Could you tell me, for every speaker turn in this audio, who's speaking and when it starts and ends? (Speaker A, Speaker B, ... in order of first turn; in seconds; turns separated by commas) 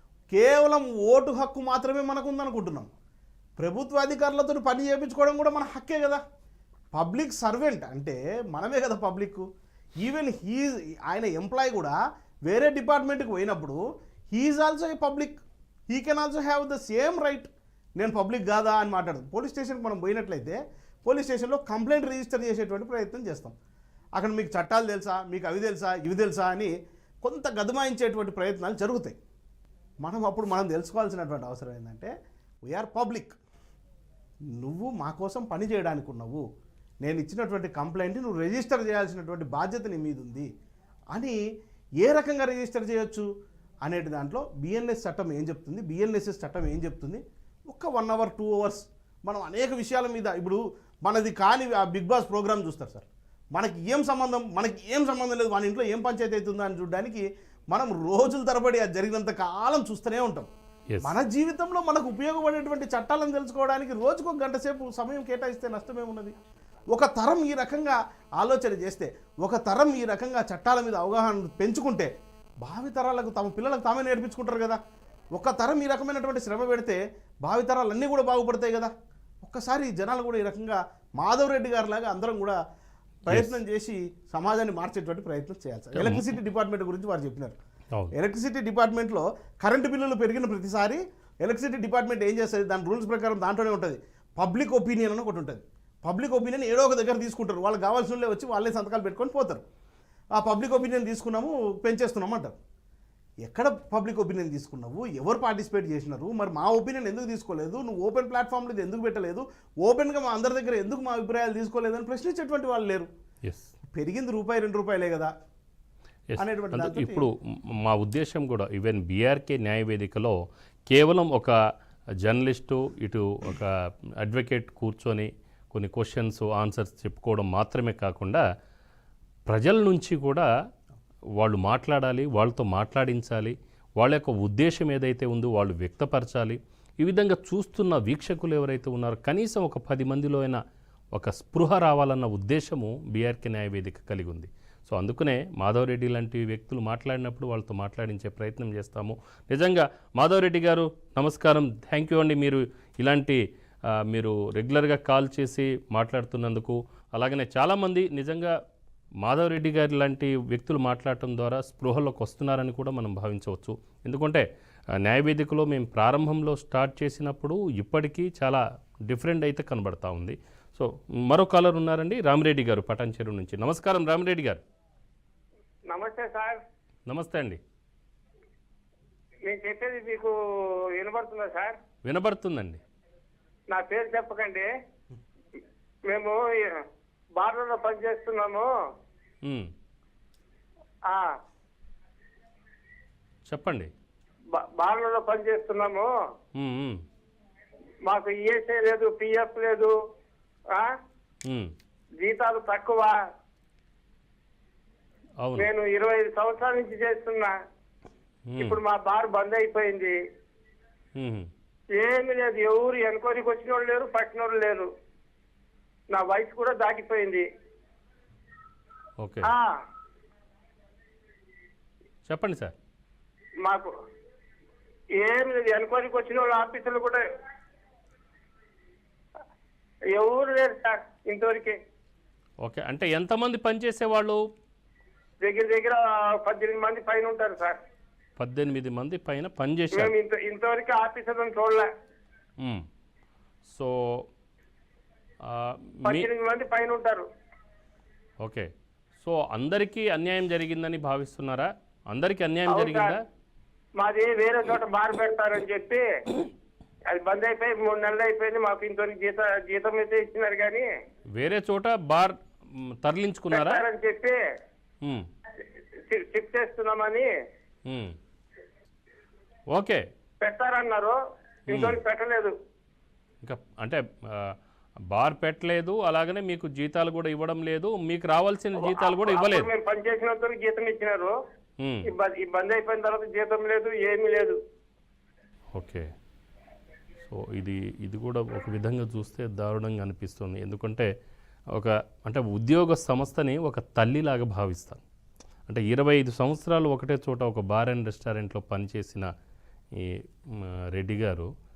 Speaker A: 0.3-2.9, Speaker A: 3.6-6.2, Speaker A: 6.9-9.4, Speaker A: 10.0-11.9, Speaker A: 12.5-13.8, Speaker A: 14.3-15.4, Speaker A: 15.9-23.6, Speaker A: 24.2-26.7, Speaker A: 27.2-29.1, Speaker A: 30.0-32.1, Speaker A: 32.7-33.4, Speaker A: 34.6-36.4, Speaker A: 37.0-40.5, Speaker A: 42.0-43.2, Speaker A: 43.9-60.5, Speaker A: 61.0-66.3, Speaker A: 66.9-72.1, Speaker A: 72.6-74.8, Speaker A: 75.3-78.9, Speaker A: 79.4-82.6, Speaker A: 83.3-87.6, Speaker B: 83.3-83.5, Speaker B: 85.9-86.3, Speaker A: 88.1-99.6, Speaker A: 100.4-102.6, Speaker A: 103.5-113.1, Speaker A: 113.9-115.3, Speaker B: 116.3-120.3, Speaker A: 116.4-117.3, Speaker B: 120.9-121.5, Speaker B: 122.2-128.4, Speaker B: 129.5-130.5, Speaker B: 131.4-140.6, Speaker B: 141.1-153.4, Speaker B: 154.1-158.5, Speaker B: 159.2-164.4, Speaker B: 165.0-174.6, Speaker C: 175.9-176.6, Speaker B: 177.1-177.6, Speaker C: 179.4-180.3, Speaker C: 180.9-181.8, Speaker B: 182.0-182.8, Speaker C: 183.7-184.7, Speaker C: 186.1-186.8, Speaker C: 187.4-188.7, Speaker B: 189.4-189.7, Speaker B: 193.5-193.9, Speaker C: 194.5-196.1, Speaker B: 196.6-197.0, Speaker C: 198.1-199.9, Speaker B: 201.4-201.7, Speaker C: 202.2-203.2, Speaker B: 205.4-205.7, Speaker C: 205.6-207.5, Speaker B: 208.5-208.8, Speaker C: 208.6-210.2, Speaker B: 211.2-211.5, Speaker C: 211.9-214.9, Speaker C: 216.1-217.4, Speaker B: 219.2-219.5, Speaker C: 219.4-219.8, Speaker B: 222.3-222.8, Speaker C: 223.6-223.9, Speaker C: 225.2-227.2, Speaker C: 230.1-231.8, Speaker B: 232.6-234.4, Speaker C: 235.4-237.8, Speaker B: 238.4-240.1, Speaker C: 239.9-241.9, Speaker B: 243.7-244.3, Speaker B: 245.4-246.3, Speaker C: 246.1-247.3, Speaker B: 248.4-248.7, Speaker B: 249.2-253.2, Speaker C: 252.7-253.1, Speaker C: 254.0-256.0, Speaker C: 257.1-260.9, Speaker B: 261.4-263.8, Speaker C: 263.5-264.4, Speaker C: 266.1-267.3, Speaker B: 267.9-268.1, Speaker B: 269.7-270.0, Speaker C: 270.4-271.2, Speaker B: 271.7-272.0, Speaker C: 271.7-272.5, Speaker B: 273.4-274.5, Speaker B: 275.1-279.7, Speaker C: 278.8-281.4, Speaker B: 281.8-282.1, Speaker C: 282.1-284.6, Speaker B: 285.7-286.0, Speaker B: 287.2-291.1, Speaker B: 291.7-295.0, Speaker B: 295.7-299.3, Speaker B: 300.0-301.5